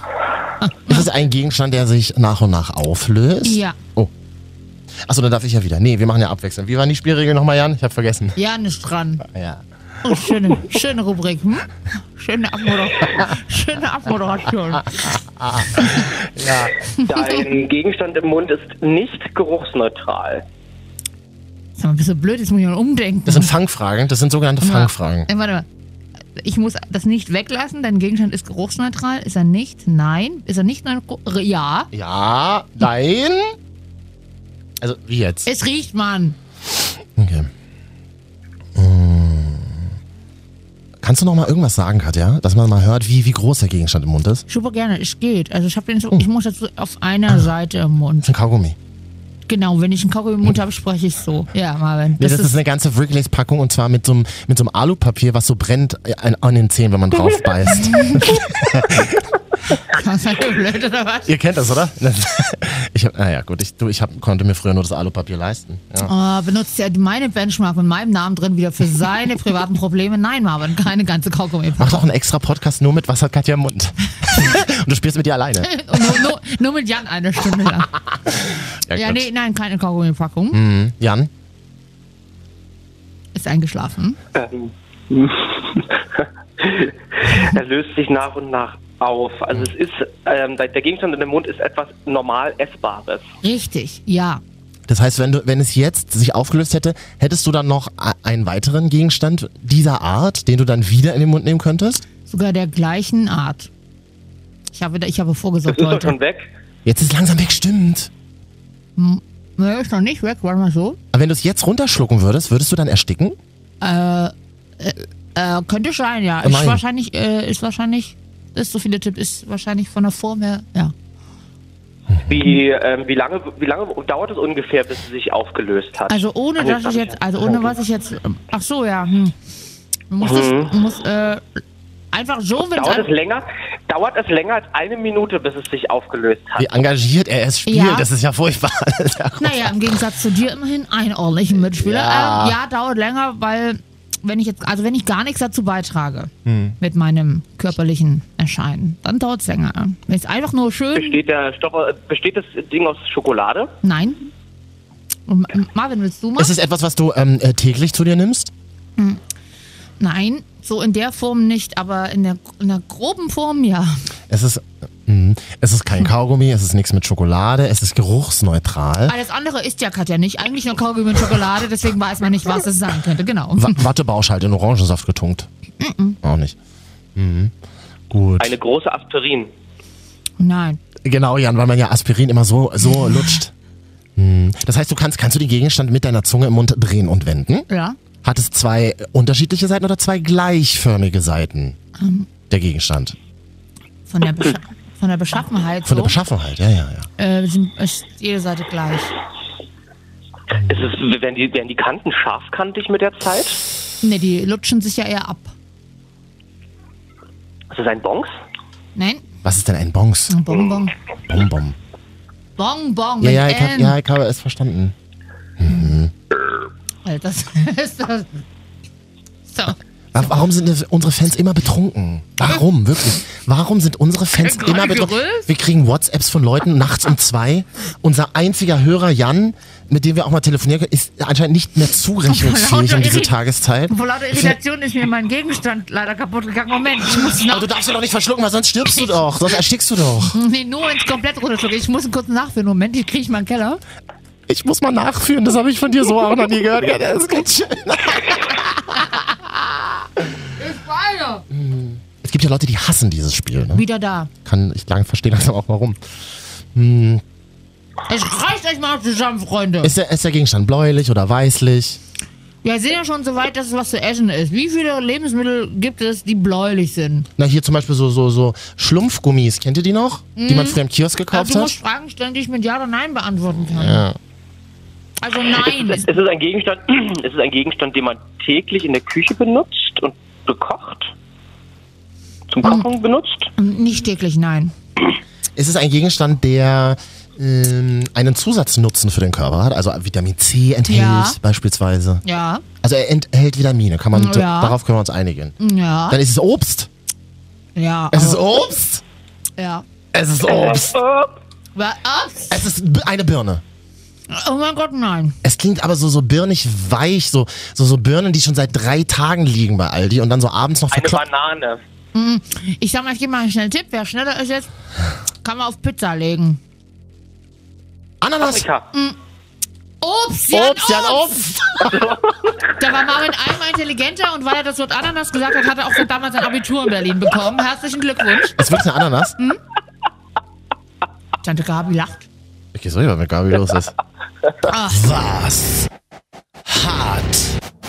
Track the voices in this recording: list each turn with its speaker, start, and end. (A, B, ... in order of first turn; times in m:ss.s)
0:00.6-0:01.1 A
0:00.9-0:04.1 B
0:03.4-0:03.8 A
0:05.0-0:08.4 B
0:08.4-0:09.3 A
0:09.2-0:09.6 B
0:10.0-0:15.1 A
0:15.1-0:16.7 B
0:15.8-0:16.1 A
0:17.0-0:17.4 A
0:17.0-0:20.4 C
0:21.8-0:23.5 A
0:23.3-0:25.3 B
0:24.6-0:25.7 A
0:26.4-0:31.9 A
0:31.9-0:33.6 B
0:34.8-0:35.5 B
0:35.5-0:36.4 A
0:37.2-0:37.5 B
0:38.8-0:39.9 B
0:41.0-0:44.4 B
0:44.5-0:48.3 A
0:48.2-0:48.8 B
0:49.5-0:52.6 A
0:52.2-0:59.3 B
0:57.8-0:58.4 A
0:59.7-1:01.3 A
1:01.3-1:06.1 B
1:06.0-1:12.1 A
1:11.8-1:16.3 B
1:15.6-1:17.9 A
1:18.1-1:19.2 B
1:18.9-1:20.6 A
1:20.5-1:21.3 B
1:23.4-1:24.2 A
1:24.4-1:33.3 C
1:33.4-1:34.4 A
1:34.9-1:42.0 B
1:42.2-1:43.7 A
1:44.7-1:46.2 A
1:45.7-1:46.5 C
1:46.8-1:48.1 B
1:49.0-1:51.0 A
1:51.1-1:53.4 B
1:53.8-2:00.9 A
1:56.4-1:56.8 B
2:02.1-2:02.4 B
2:02.3-2:07.8 C
2:06.1-2:09.3 A
2:10.1-2:11.6 A
2:10.2-2:10.7 C
2:12.1-2:13.1 A
2:12.7-2:16.7 C
2:16.6-2:20.0 B
2:17.7-2:18.1 A
2:19.4-2:31.2 A
2:21.5-2:22.6 B
2:26.4-2:26.8 B
2:31.0-2:33.8 C
2:33.8-2:34.3 A
2:35.3-2:36.5 A
2:36.4-2:38.5 B
2:40.0-2:44.0 A
2:44.3-2:49.2 B
2:49.1-2:53.8 A
2:53.6-2:55.5 B
2:55.8-2:56.2 A
2:56.2-2:56.6 B
2:57.2-2:57.5 B
2:58.1-2:58.6 B
2:58.4-2:59.5 C
3:00.4-3:00.8 A
3:01.0-3:03.5 B
3:04.2-3:07.7 B
3:07.7-3:08.0 A
3:08.2-3:11.8 B
3:12.0-3:12.3 A
3:12.5-3:13.2 B
3:14.1-3:16.2 A
3:15.8-3:17.1 B
3:17.2-3:19.1 A
3:20.5-3:20.9 B
3:20.7-3:23.6 C
3:24.0-3:25.5 A
3:27.7-3:28.3 C
3:29.0-3:29.2 A
3:29.4-3:30.4 B
3:30.3-3:30.9 A
3:31.3-3:31.8 B
3:32.6-3:34.0 A
3:33.2-3:35.0 B
3:35.6-3:36.1 B
3:37.0-3:38.3 A
3:39.5-3:39.8 A
3:40.1-3:54.6 B
3:44.4-3:45.5 A
3:52.3-3:53.4 A
3:53.9-3:57.7 A
3:57.2-4:00.4 B
4:00.3-4:03.8 A
4:04.5-4:09.3 B
4:10.6-4:11.4 A
4:11.5-4:13.8 B
4:13.7-4:14.3 A
4:14.4-4:17.2 B
4:18.1-4:19.9 A
4:19.8-4:22.0 B
4:22.6-4:27.3 A
4:27.4-4:31.8 B
4:30.4-4:34.1 A
4:33.6-4:34.2 B
4:35.2-4:36.1 A
4:35.7-4:41.1 C
4:42.5-4:43.5 C
4:43.6-4:44.7 A
4:45.6-4:52.2 B
4:50.9-4:51.4 A
4:52.2-4:52.6 A
4:52.8-4:55.6 B
4:54.1-4:54.8 A
4:55.6-4:56.2 A
4:56.1-4:56.9 B
4:57.8-4:58.6 A
4:58.1-4:59.0 B
4:59.6-4:59.8 A
5:00.1-5:01.0 B
5:00.4-5:01.4 C
5:01.8-5:02.6 A
5:02.5-5:03.6 B
5:04.3-5:05.4 A
5:05.4-5:11.2 B
5:10.9-5:11.8 C
5:12.2-5:14.7 A
5:15.4-5:16.6 A
5:18.2-5:18.7 B
5:18.4-5:18.9 C
5:20.0-5:21.4 A
5:20.5-5:22.1 B
5:21.8-5:22.6 C
5:22.8-5:28.6 A
5:28.6-5:29.4 B
5:31.4-5:32.2 A
5:32.7-5:33.9 B
5:34.6-5:35.9 B
5:34.7-5:35.0 A
5:36.6-5:37.6 B